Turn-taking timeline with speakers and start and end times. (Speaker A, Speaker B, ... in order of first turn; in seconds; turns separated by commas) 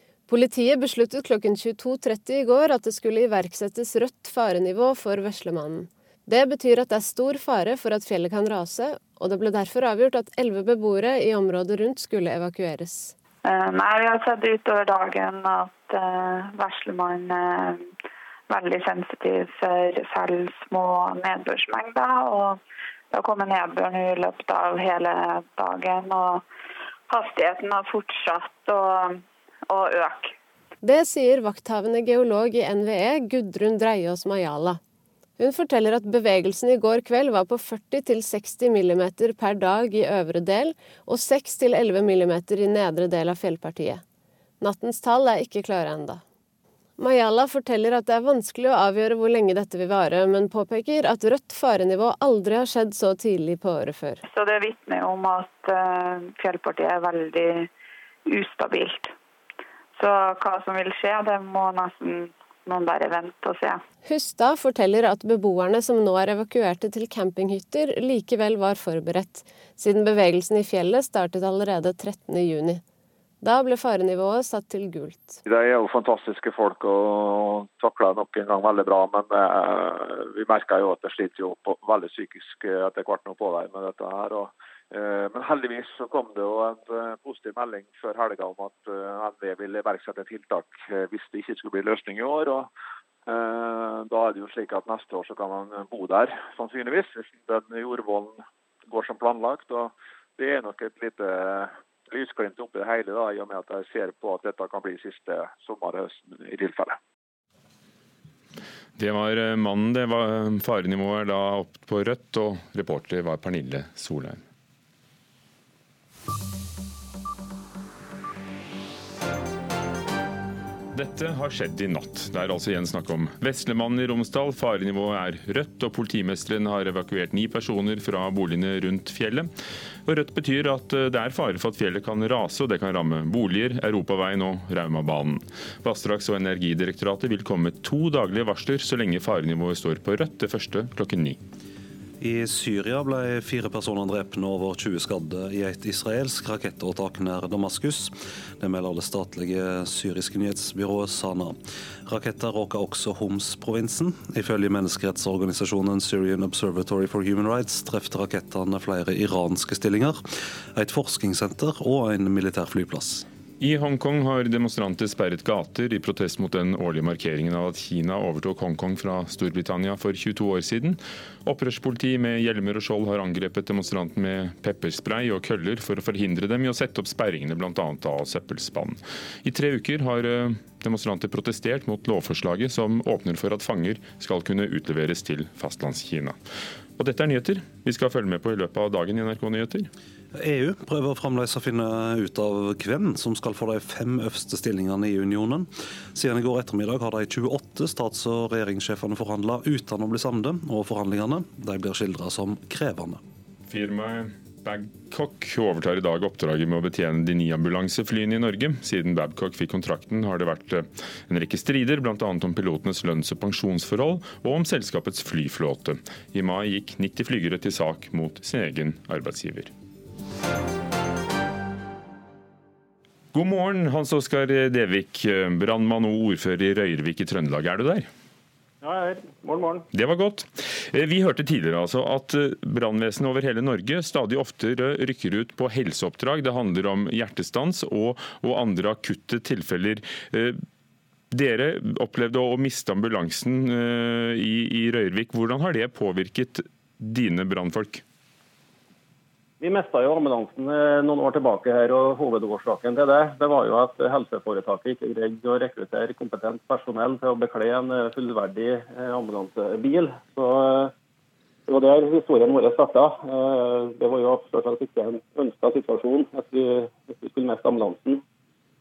Speaker A: 0.3-13.1, Speaker B: 13.4-17.9, Speaker B: 18.5-22.6, Speaker B: 23.1-26.4, Speaker B: 27.1-30.3, Speaker A: 30.8-34.8, Speaker A: 35.4-44.0, Speaker A: 44.6-46.2, Speaker A: 47.0-54.2, Speaker B: 54.2-57.7, Speaker B: 58.3-59.1, Speaker B: 60.0-63.8, Speaker A: 64.0-72.8, Speaker A: 73.4-75.4, Speaker C: 75.5-92.7, Speaker C: 93.3-107.0, Speaker D: 109.0-114.4, Speaker D: 120.9-129.5, Speaker D: 130.1-141.4, Speaker E: 142.2-160.2, Speaker E: 160.7-163.2, Speaker D: 163.6-186.4, Speaker D: 187.0-189.9, Speaker E: 190.3-203.2, Speaker D: 203.7-219.7, Speaker D: 223.3-228.1, Speaker F: 228.8-229.8, Speaker D: 229.9-240.6, Speaker D: 241.3-248.0, Speaker F: 249.6-260.9, Speaker F: 261.7-268.2